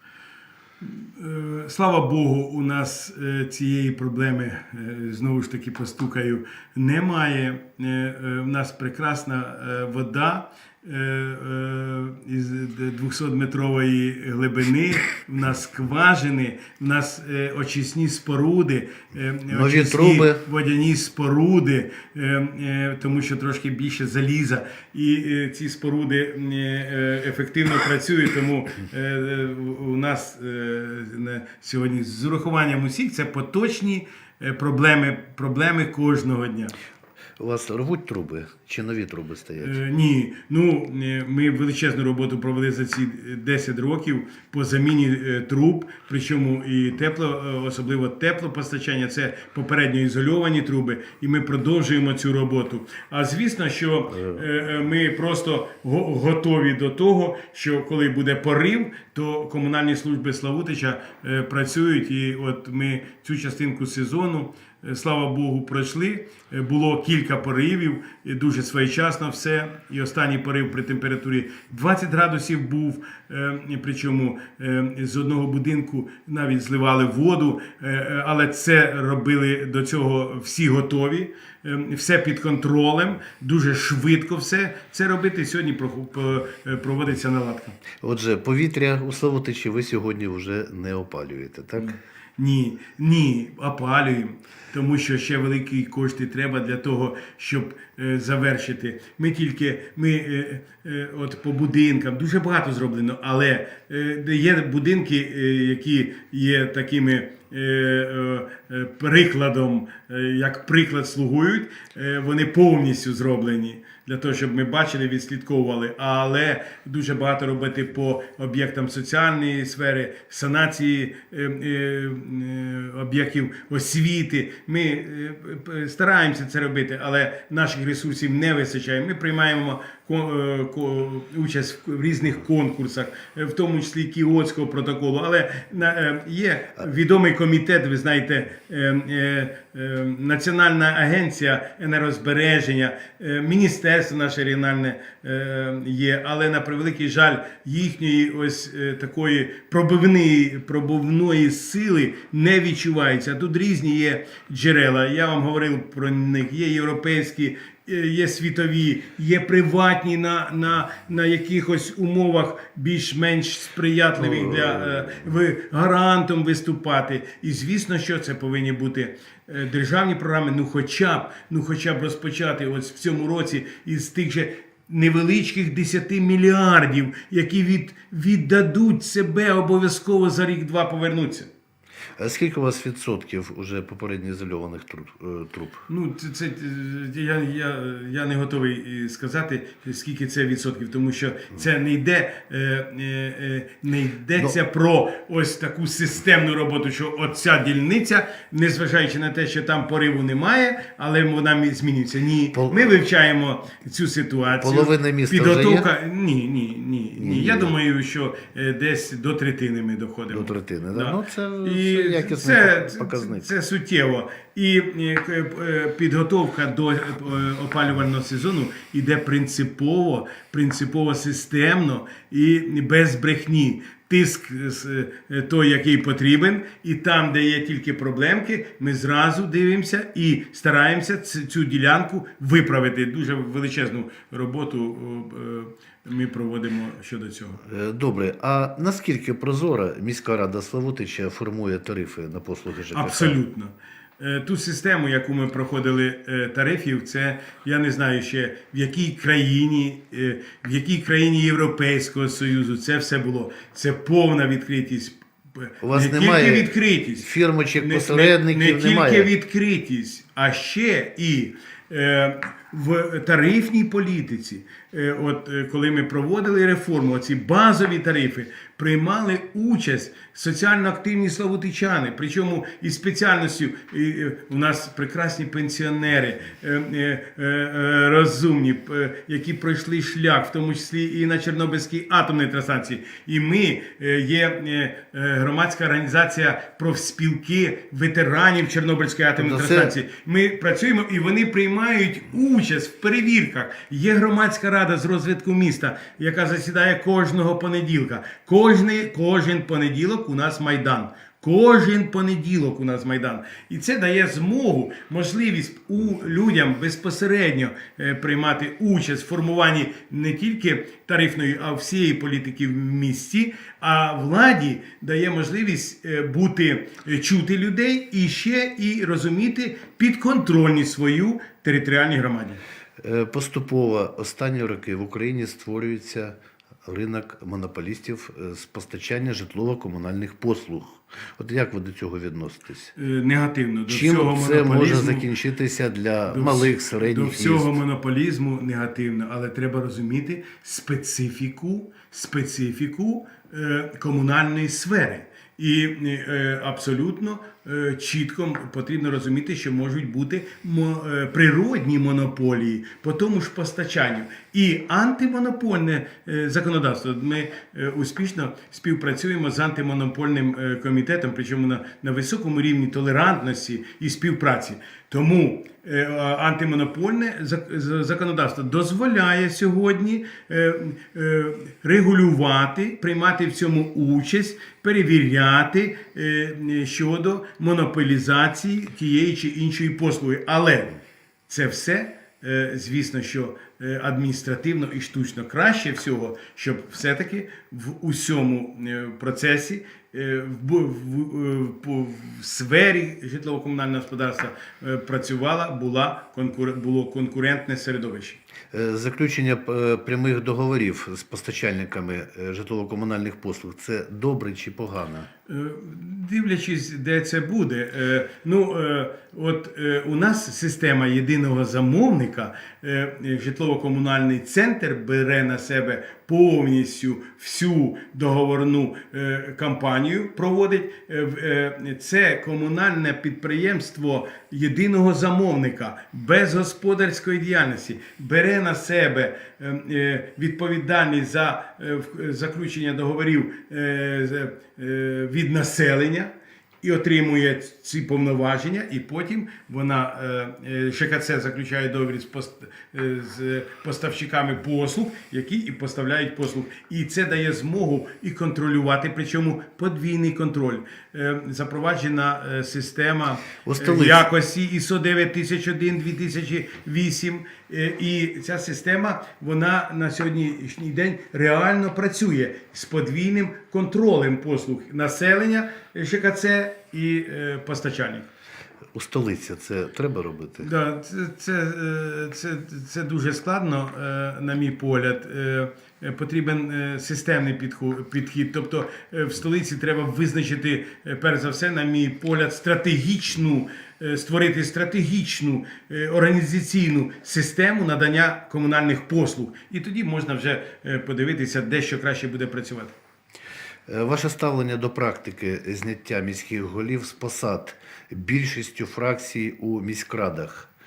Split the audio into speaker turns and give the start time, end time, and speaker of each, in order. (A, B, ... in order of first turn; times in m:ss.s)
0:00.8-0:36.7 A
0:19.5-0:20.4 B
0:37.4-0:39.8 B
0:39.6-1:27.8 A
1:28.0-1:32.0 B
1:31.8-3:01.5 A
2:44.2-2:45.2 B
3:02.2-3:05.8 B
3:05.9-3:57.6 A
3:22.5-3:22.9 B
3:24.6-3:25.9 B
3:27.2-3:27.7 B
3:30.3-3:33.5 B
3:57.6-4:03.3 B
4:02.9-4:17.2 A
4:15.8-4:19.3 B
4:17.8-5:22.6 A
4:49.4-4:49.9 B
5:23.0-5:32.9 B
5:33.0-5:35.3 A
5:33.9-5:37.8 B
5:36.3-6:38.4 A
6:38.7-6:45.3 B
6:45.5-7:48.3 A
7:33.6-7:34.2 B
7:48.9-7:50.7 B
7:50.6-8:12.9 A
8:13.9-8:20.7 B